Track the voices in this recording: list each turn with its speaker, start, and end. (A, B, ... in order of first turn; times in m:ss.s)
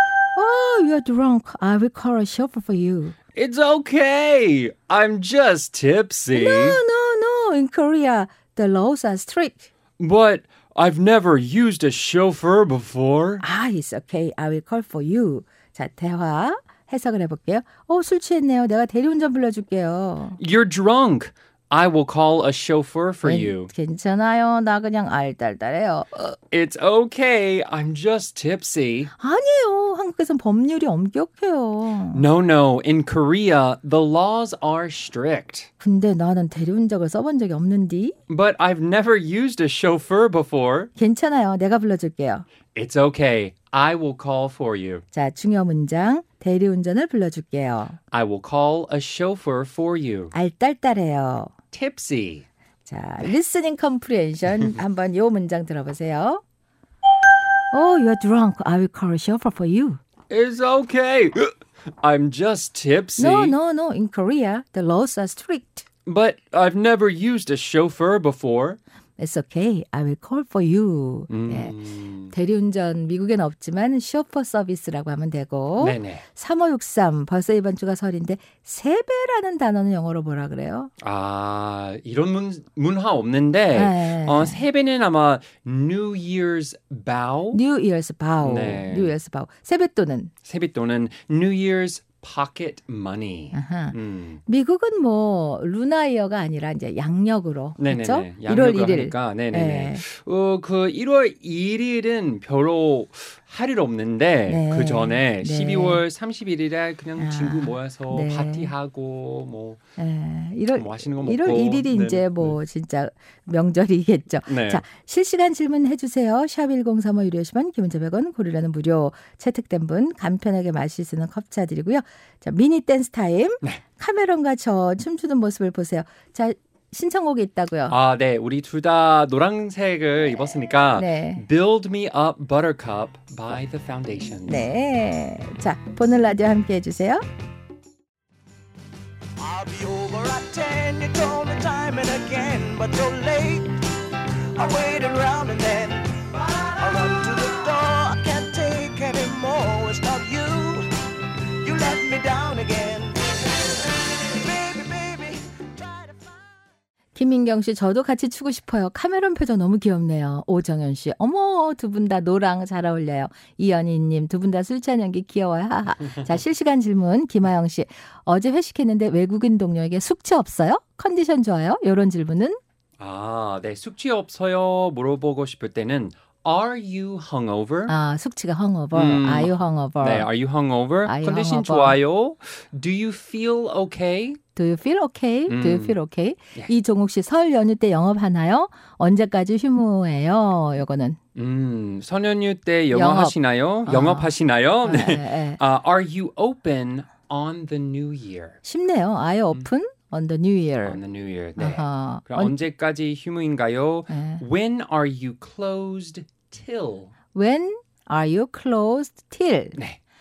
0:00.4-0:03.2 A
0:03.4-0:06.8 B
0:06.3-0:09.7 A
0:10.0-0:13.4 B
0:13.4-0:20.4 A
0:20.4-0:23.7 B
0:23.2-0:26.4 A
0:26.5-0:29.1 B
0:29.2-0:32.2 A
0:32.1-0:35.7 B
0:35.8-0:38.2 A
0:38.3-0:40.9 B
0:41.0-0:42.4 A
0:42.8-0:45.0 B
0:45.1-0:48.0 A
0:48.1-0:50.3 B
0:50.3-0:51.5 A
0:51.7-0:52.5 B
0:52.9-0:56.4 A
0:57.7-1:00.0 A
1:00.3-1:03.6 B
1:03.2-1:05.8 A
1:06.1-1:08.8 B
1:09.2-1:11.8 A
1:11.3-1:12.3 B
1:12.3-1:20.9 A
1:15.8-1:16.2 B
1:21.0-1:27.6 B
1:23.8-1:24.6 A
1:27.5-1:30.3 A
1:28.4-1:29.1 B
1:30.4-1:34.4 B
1:33.5-1:40.0 A
1:37.8-1:49.8 B
1:44.5-1:46.0 A
1:47.2-1:48.7 A
1:50.0-2:08.0 A
1:50.8-1:52.6 B
1:54.5-1:54.8 B
2:07.9-2:14.7 B
2:11.0-2:11.4 A
2:14.5-2:17.2 A
2:19.4-2:23.8 C
2:24.5-2:30.9 C
2:31.6-2:36.4 C
2:37.2-2:52.6 A
2:53.0-2:57.9 B
2:57.9-3:00.3 A
2:58.9-3:04.4 B
3:01.1-3:02.0 A
3:04.6-3:11.2 A
3:05.5-3:06.0 B
3:11.4-3:18.6 B
3:12.9-3:13.4 A
3:13.9-3:14.3 A
3:14.8-3:15.6 A
3:18.6-3:21.0 A
3:20.8-3:27.1 B
3:21.6-3:22.6 A
3:24.1-3:24.4 A
3:27.3-3:29.8 A